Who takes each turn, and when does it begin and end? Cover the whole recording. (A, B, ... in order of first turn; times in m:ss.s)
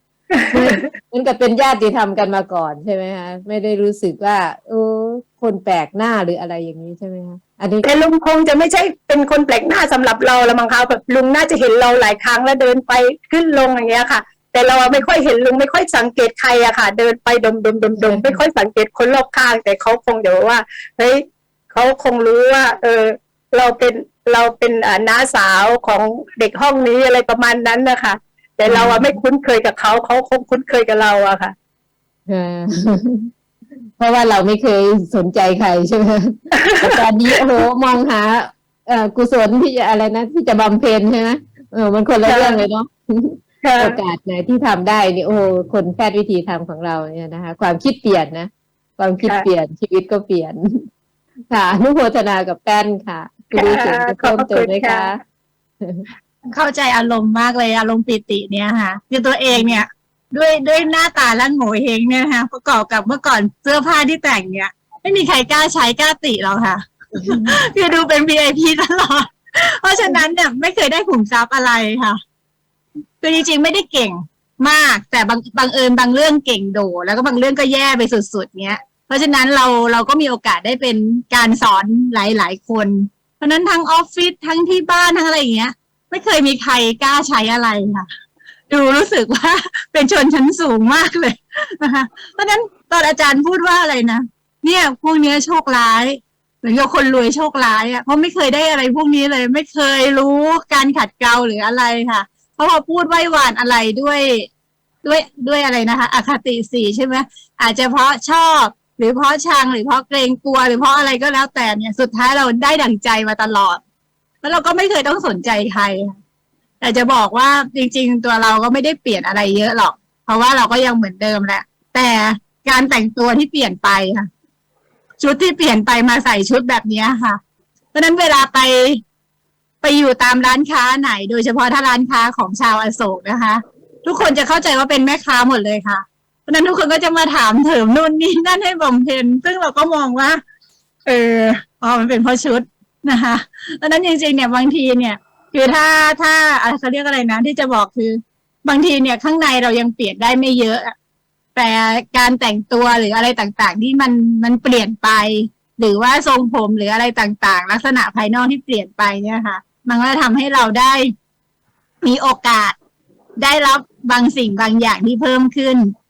0:00.3-0:00.8 A
0:00.5-0:07.8 B
0:07.8-0:31.5 A
0:18.0-0:18.4 B
0:28.7-0:29.2 B
0:32.3-0:33.3 B
0:34.0-0:50.8 B
0:36.5-0:37.0 A
0:42.2-0:42.6 A
0:43.6-0:44.0 A
0:51.5-0:55.2 B
0:53.5-0:55.1 A
0:56.5-1:12.2 C
1:07.2-1:07.5 B
1:13.2-1:28.0 C
1:28.7-1:44.5 C
1:45.0-1:53.8 C
1:54.4-1:56.2 C
1:56.8-2:04.3 C
2:05.2-2:07.4 C
2:07.9-2:09.0 C
2:09.8-2:20.4 C
2:21.0-2:30.9 C
2:31.6-2:41.1 C
2:42.0-2:42.8 C
2:43.4-2:45.9 C